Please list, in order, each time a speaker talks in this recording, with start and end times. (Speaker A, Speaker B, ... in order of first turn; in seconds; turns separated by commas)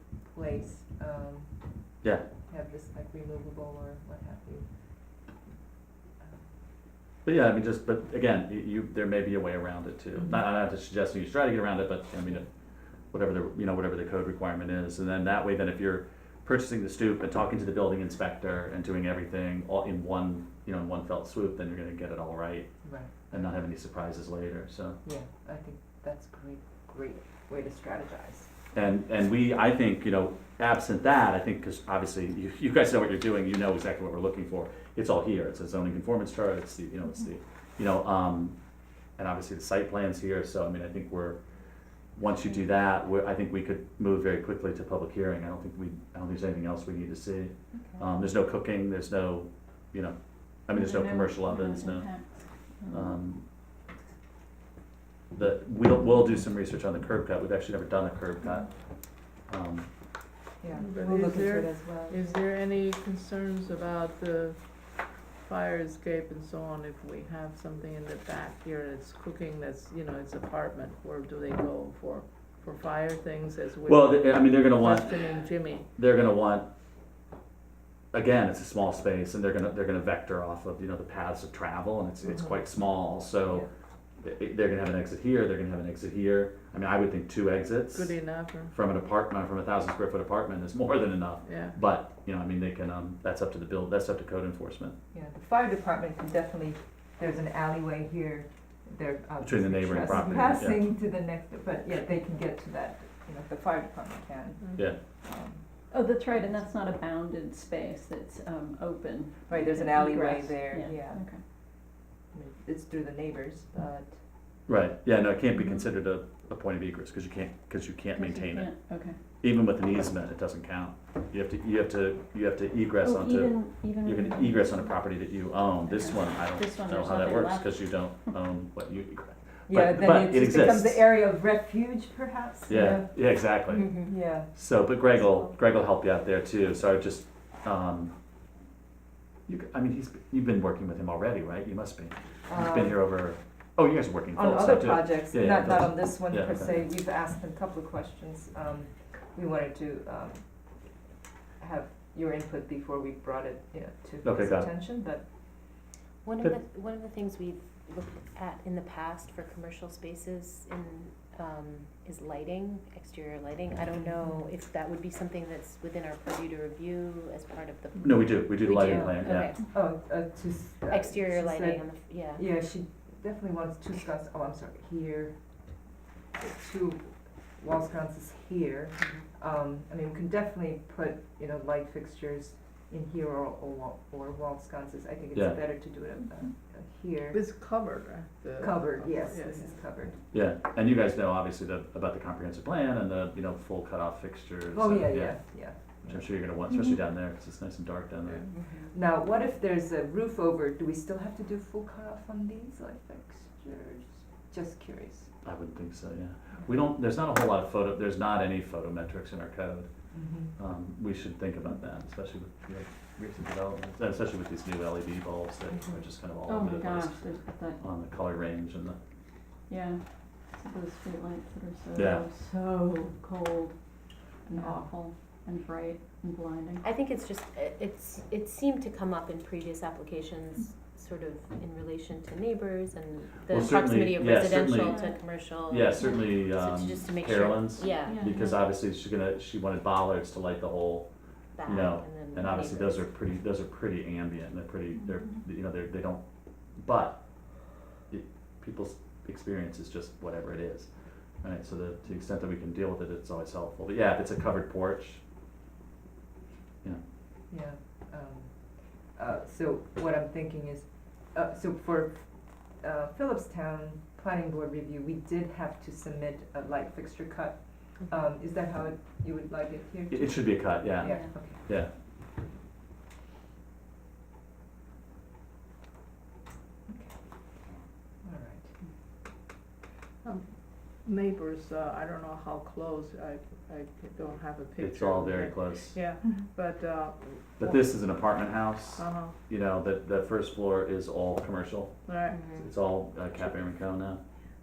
Speaker A: 0.3-4.8, Speaker A: 6.2-6.5, Speaker B: 7.2-12.5, Speaker B: 13.1-25.0, Speaker A: 22.8-23.4, Speaker A: 25.1-28.5, Speaker B: 28.7-38.6, Speaker B: 39.2-41.4, Speaker B: 42.2-52.1, Speaker C: 50.7-53.2, Speaker B: 52.9-53.4, Speaker B: 55.4-58.7, Speaker B: 59.5-59.9, Speaker A: 60.6-62.4, Speaker D: 60.8-75.9, Speaker B: 73.8-75.3, Speaker B: 76.0-76.7, Speaker B: 78.1-83.7, Speaker B: 84.2-88.2, Speaker D: 87.9-88.7, Speaker B: 88.7-95.0, Speaker D: 91.5-91.8, Speaker A: 95.1-105.6, Speaker B: 99.4-100.9, Speaker D: 104.6-104.9, Speaker C: 105.9-111.4, Speaker A: 109.5-111.2, Speaker A: 112.3-114.2, Speaker B: 114.7-118.7, Speaker C: 118.1-119.2, Speaker B: 119.4-131.0, Speaker C: 123.0-124.9, Speaker C: 125.9-128.4, Speaker A: 129.7-133.1, Speaker B: 132.7-138.1, Speaker C: 132.7-133.0, Speaker E: 133.7-134.1, Speaker A: 134.1-134.5, Speaker B: 139.5-146.8, Speaker A: 142.5-143.0, Speaker A: 144.4-150.4, Speaker A: 151.6-155.2, Speaker B: 154.2-154.7, Speaker E: 156.2-169.6, Speaker A: 164.1-164.4, Speaker B: 168.0-169.5, Speaker A: 168.8-175.4, Speaker E: 170.9-172.5, Speaker A: 176.4-187.4, Speaker D: 187.3-189.6, Speaker A: 188.6-190.2, Speaker B: 190.3-198.4, Speaker A: 194.7-196.2, Speaker A: 198.9-205.3, Speaker B: 205.4-209.9, Speaker A: 210.1-210.5, Speaker B: 210.4-217.2, Speaker C: 216.5-217.8, Speaker B: 217.8-219.0, Speaker C: 219.7-223.8, Speaker B: 222.0-222.2, Speaker C: 224.4-226.8, Speaker D: 224.6-224.9, Speaker E: 226.8-238.3, Speaker B: 233.5-235.0, Speaker C: 234.8-235.2, Speaker B: 235.6-241.1, Speaker C: 238.1-238.6, Speaker E: 241.6-243.1, Speaker B: 241.7-246.2, Speaker C: 244.9-245.4, Speaker B: 246.8-247.5, Speaker B: 248.1-250.9, Speaker B: 251.4-255.2, Speaker A: 257.5-271.6, Speaker B: 270.1-271.9, Speaker E: 271.0-271.3, Speaker A: 276.9-277.2, Speaker A: 278.2-278.7, Speaker D: 280.2-287.9, Speaker B: 284.8-286.0, Speaker B: 287.6-292.0, Speaker D: 289.0-289.3, Speaker D: 292.1-292.4, Speaker E: 292.3-292.7, Speaker B: 292.6-294.2